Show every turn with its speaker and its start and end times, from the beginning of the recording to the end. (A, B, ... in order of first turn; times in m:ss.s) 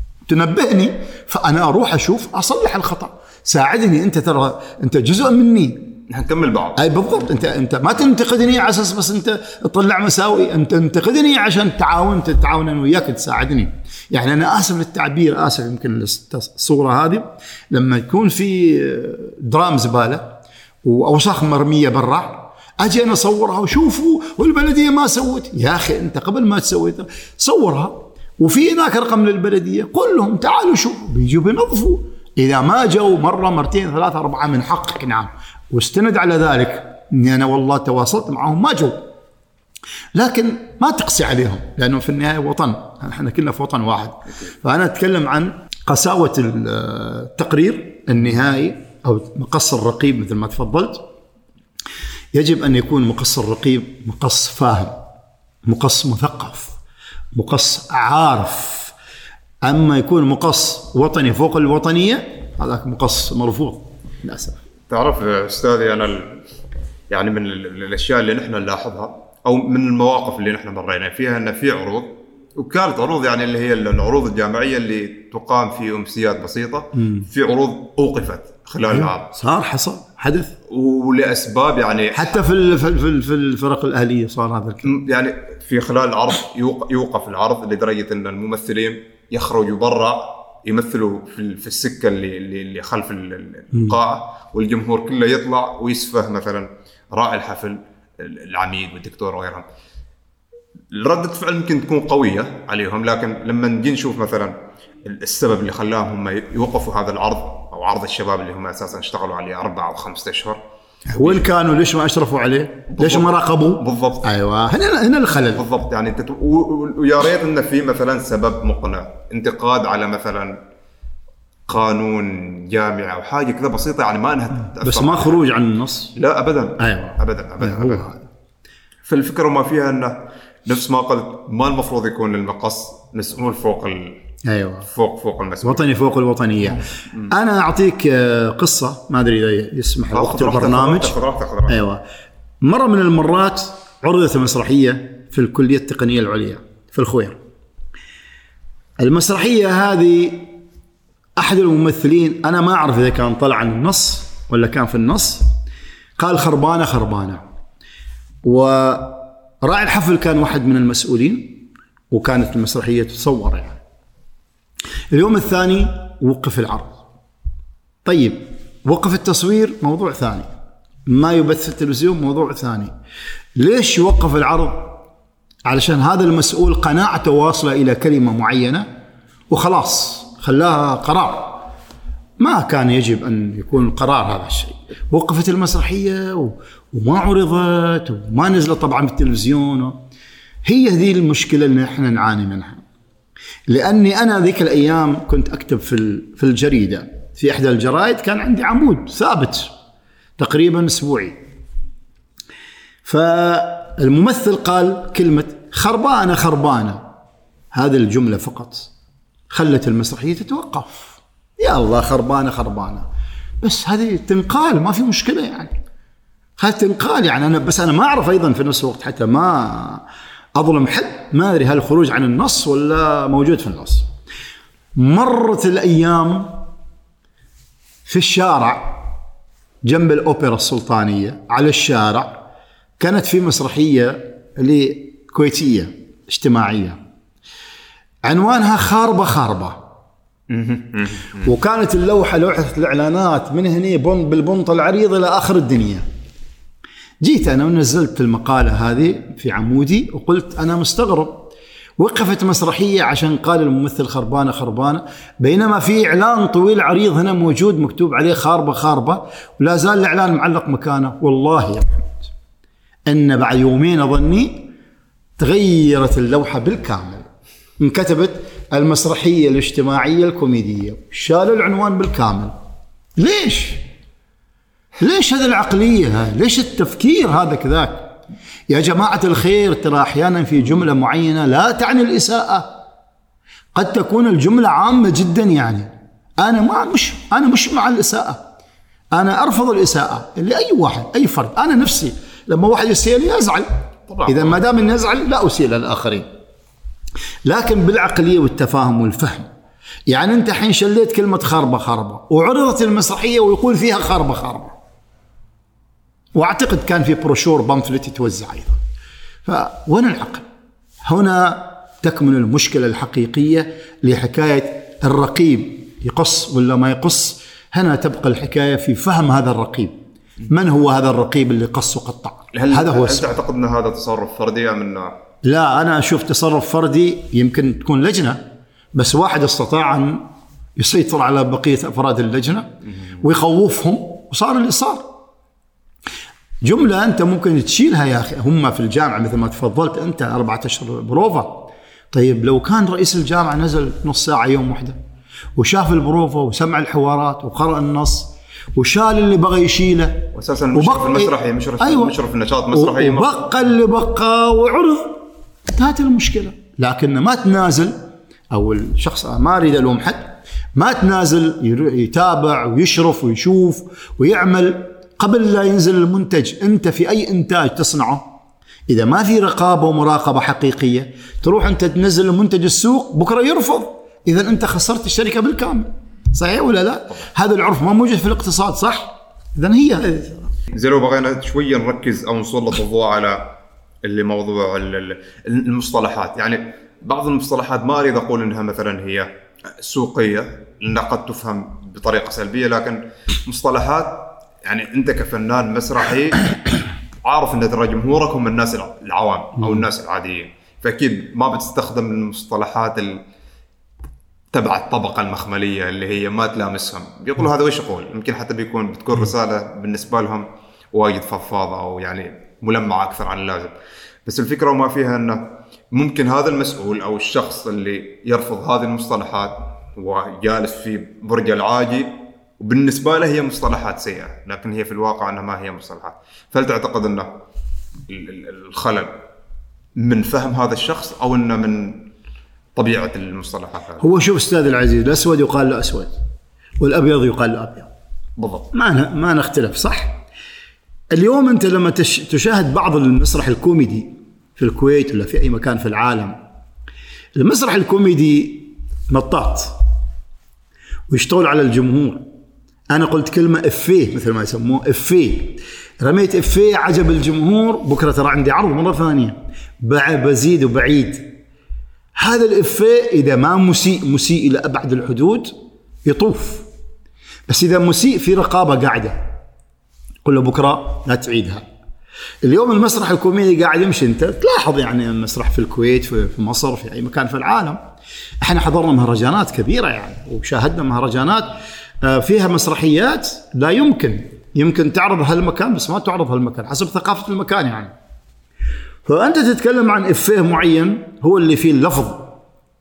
0:00.2-0:06.0 A
0:06.1-0:07.3 B
0:06.8-0:39.1 A
0:40.1-0:51.1 A
0:52.3-0:55.0 A
0:55.6-0:56.8 A
0:57.3-0:58.9 A
0:59.6-1:04.6 A
1:04.9-1:06.4 B
1:07.1-1:19.3 B
1:16.9-1:17.3 A
1:18.9-1:20.5 A
1:20.7-1:22.5 B
1:22.1-1:24.9 A
1:24.8-1:39.6 B
1:40.9-1:50.6 B
1:51.1-1:55.7 A
1:51.2-1:51.5 B
1:52.9-1:54.3 B
1:55.5-2:00.6 B
2:01.7-2:05.4 B
2:04.8-2:06.1 A
2:06.1-2:08.1 B
2:06.8-2:08.2 A
2:09.0-2:14.2 B
2:14.4-2:14.9 A
2:14.9-2:15.9 B
2:15.6-2:22.0 A
2:16.8-2:17.3 B
2:20.1-2:21.8 B
2:22.6-2:27.4 A
2:29.0-2:30.6 A
2:31.4-2:35.5 A
2:36.2-2:37.4 A
2:38.4-2:43.8 A
2:45.1-2:47.0 A
2:48.0-2:50.5 A
2:51.1-2:52.9 A
2:53.6-2:55.0 A
2:55.6-2:58.9 A
2:59.5-3:01.7 A
3:02.4-3:10.0 A
3:10.6-3:12.8 A
3:13.7-3:19.7 A
3:20.4-3:21.4 A
3:23.0-3:27.1 A
3:27.7-3:28.9 A
3:29.5-3:33.0 A
3:33.6-3:35.8 A
3:36.6-3:44.1 A
3:44.9-3:46.6 A
3:48.0-3:49.1 A
3:49.8-3:52.4 A
3:53.0-3:57.0 A
3:58.2-3:59.8 A
4:00.5-4:01.4 B
4:01.4-4:06.0 A
4:07.2-4:22.3 A
4:23.1-4:24.7 A
4:25.4-4:27.3 A
4:27.8-4:32.5 A
4:33.2-4:33.9 A
4:35.0-4:38.2 A
4:38.7-4:42.7 A
4:43.7-4:48.4 A
4:49.1-4:56.3 A
4:54.1-4:54.6 B
4:57.4-4:59.5 A
5:00.1-5:04.7 A
5:06.4-5:08.8 A
5:09.4-5:10.4 A
5:11.0-5:20.0 A
5:20.5-5:23.4 A
5:22.5-5:25.1 B
5:25.4-5:35.2 A
5:36.6-5:45.0 A
5:45.6-5:52.2 A
5:50.3-5:53.3 B
5:52.7-5:58.0 A
5:58.5-6:08.4 A
6:08.9-6:20.5 A
6:20.7-6:43.2 B
6:44.5-7:07.3 B
7:08.1-7:09.2 B
7:10.0-7:12.1 B
7:12.8-7:14.0 B
7:14.0-7:16.1 A
7:16.8-7:17.9 A
7:18.4-7:18.7 B
7:18.7-7:20.2 A
7:21.1-7:26.4 A
7:27.4-7:29.8 A
7:31.1-7:32.3 A
7:32.9-7:41.4 A
7:42.2-7:46.7 A
7:47.5-7:49.3 A
7:50.2-7:51.6 A
7:52.4-7:57.8 A
7:58.4-8:07.9 A
8:09.0-8:12.4 A